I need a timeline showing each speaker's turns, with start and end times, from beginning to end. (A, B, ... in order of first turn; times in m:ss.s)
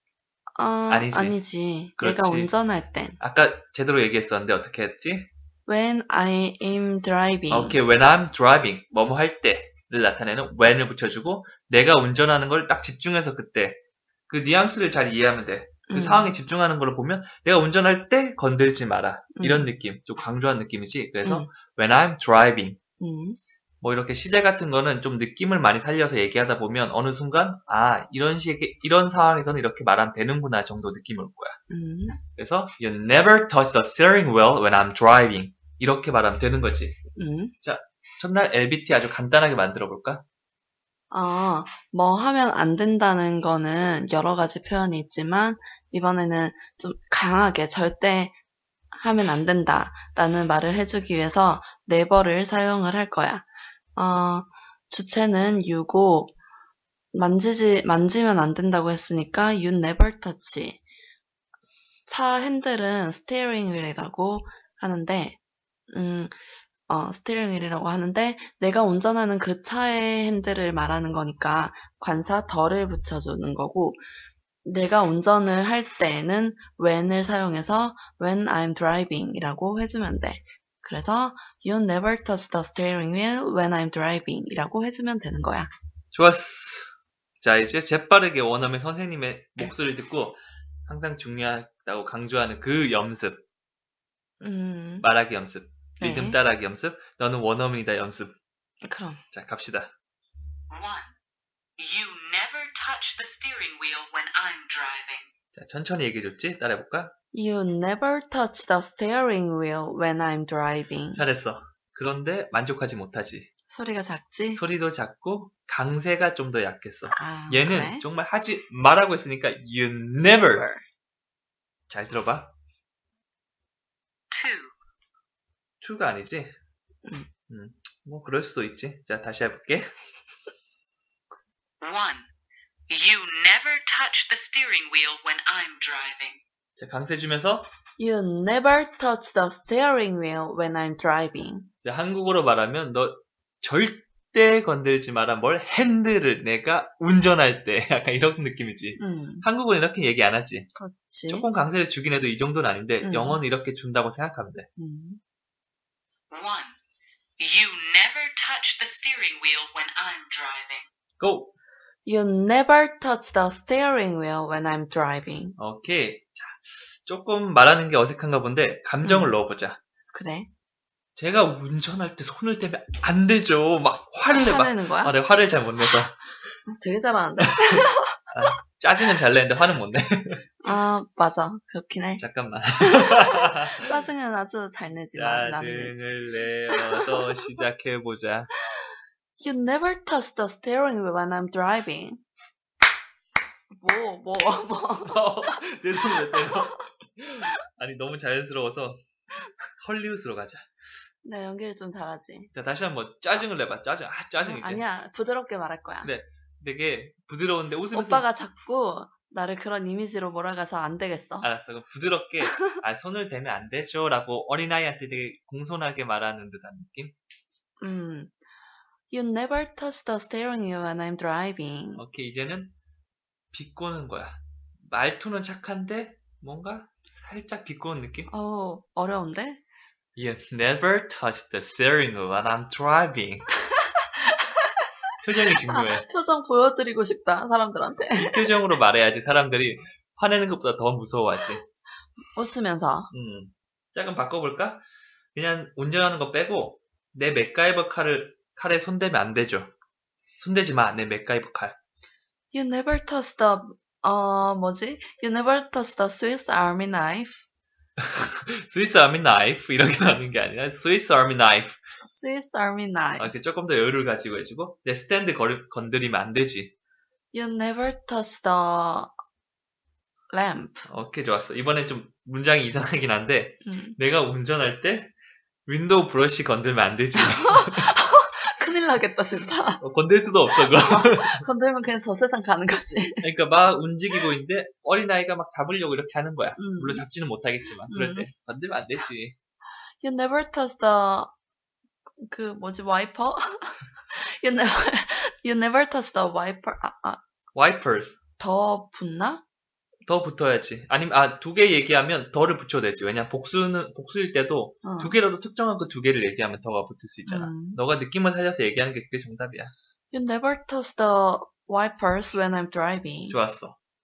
0:00.6-0:03.2 A
0:00.9-0:01.4 B
0:02.0-0:02.5 B
0:03.2-0:05.3 B
0:05.7-0:07.8 A
0:07.5-0:22.8 B
0:15.9-0:16.3 A
0:19.4-0:19.7 A
0:21.2-0:21.5 A
0:23.0-0:23.4 A
0:23.8-0:31.6 B
0:31.7-0:32.2 A
0:32.4-0:37.0 B
0:37.2-0:37.5 A
0:37.6-0:40.2 B
0:41.1-0:48.4 A
0:48.9-0:56.4 A
0:57.1-1:00.8 A
1:02.1-1:05.4 A
1:05.9-1:14.0 A
1:14.6-1:25.7 A
1:26.1-1:33.4 B
1:34.4-1:35.1 A
1:35.0-1:38.3 B
1:36.0-1:36.4 A
1:38.8-1:39.2 A
1:39.3-1:39.9 B
1:40.7-1:41.1 C
1:41.8-1:45.3 C
1:45.5-1:47.1 B
1:47.3-1:51.2 A
1:51.1-1:53.5 B
1:53.7-1:54.6 A
1:54.5-2:00.7 B
1:57.1-1:58.0 A
2:00.4-2:00.8 A
2:01.9-2:02.5 B
2:04.3-2:04.7 C
2:05.8-2:06.5 B
2:07.0-2:07.3 A
2:07.5-2:09.9 B
2:11.8-2:12.3 C
2:12.9-2:16.4 C
2:16.8-2:17.7 B
2:18.0-2:21.7 A
2:21.8-2:30.7 B
2:29.0-2:29.5 A
2:30.8-2:31.5 A
2:31.3-2:34.7 B
2:33.0-2:33.4 A
2:34.8-2:35.2 A
2:36.3-2:36.8 C
2:37.4-2:40.9 C
2:41.2-2:41.5 B
2:42.1-2:45.6 A
2:45.6-2:49.8 B
2:49.0-2:49.4 A
2:50.1-2:50.5 A
2:51.2-2:56.2 B
2:54.3-2:55.2 A
2:56.7-2:58.5 A
2:58.3-3:00.5 B
3:00.6-3:02.2 A
3:02.2-3:03.7 B
3:02.8-3:06.0 A
3:05.2-3:08.5 B
3:06.7-3:07.2 A
3:09.4-3:12.2 A
3:13.7-3:15.6 A
3:15.0-3:19.0 B
3:16.3-3:16.7 A
3:19.8-3:20.7 B
3:21.2-3:22.5 A
3:22.5-3:24.8 B
3:24.4-3:26.1 A
3:26.0-3:28.3 B
3:27.9-3:31.5 A
3:31.4-3:37.1 B
3:37.8-3:38.3 A
3:39.1-3:42.0 A
3:42.0-3:42.7 B
3:43.5-3:48.3 B
3:48.3-3:49.6 A
3:50.2-3:53.5 B
3:55.2-3:56.1 B
3:55.5-3:58.6 A
3:58.1-4:01.6 B
4:02.4-4:03.1 A
4:03.1-4:04.8 B
4:05.4-4:09.7 B
4:10.4-4:11.8 B
4:12.5-4:17.4 A
4:18.0-4:21.8 B
4:22.0-4:23.3 A
4:23.2-4:26.7 B
4:27.3-4:29.1 A
4:30.3-4:30.9 A
4:30.9-4:35.1 B
4:33.6-4:34.0 A
4:35.7-4:37.9 B
4:37.2-4:39.8 A
4:39.8-4:41.4 B
4:40.5-4:43.3 A
4:43.2-4:49.4 B
4:46.6-4:47.1 A
4:47.9-4:48.3 A
4:50.0-4:51.3 A
4:52.2-4:57.2 A
4:57.6-4:58.2 B
4:58.4-4:59.4 A
5:00.1-5:09.7 B
5:04.8-5:05.2 A
5:07.3-5:07.8 A
5:10.1-5:13.4 A
5:13.3-5:13.8 B